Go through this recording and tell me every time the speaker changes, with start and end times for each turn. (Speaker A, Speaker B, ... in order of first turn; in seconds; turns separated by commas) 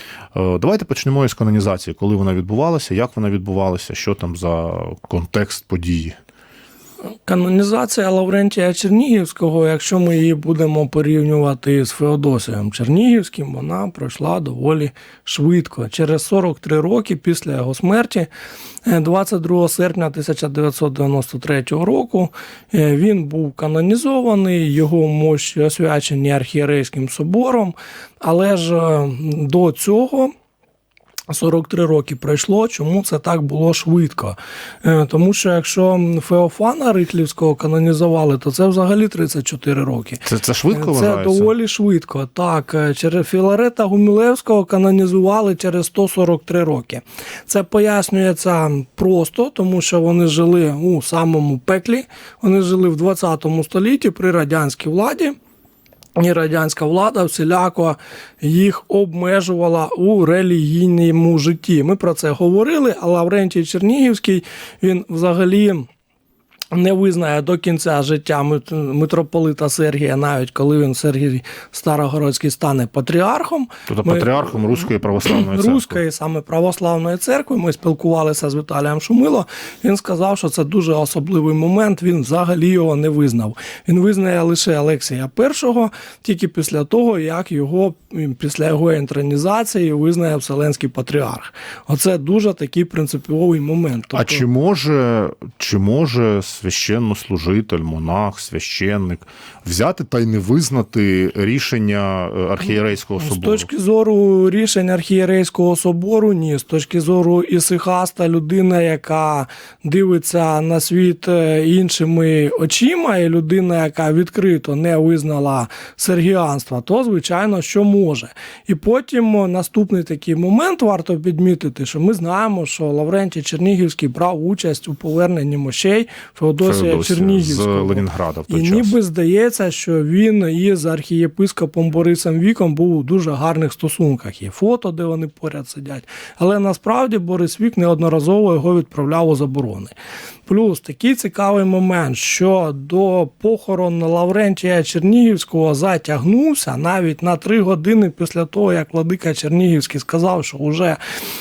Speaker A: 0.3-6.2, Speaker B: 7.2-18.3, Speaker B: 18.8-30.3, Speaker B: 31.3-55.3, Speaker A: 40.2-41.5, Speaker B: 56.1-65.9, Speaker B: 66.7-74.6, Speaker A: 73.9-76.0, Speaker B: 75.2-94.4, Speaker A: 94.1-103.7, Speaker B: 103.2-139.9, Speaker A: 126.6-129.0, Speaker B: 140.5-151.0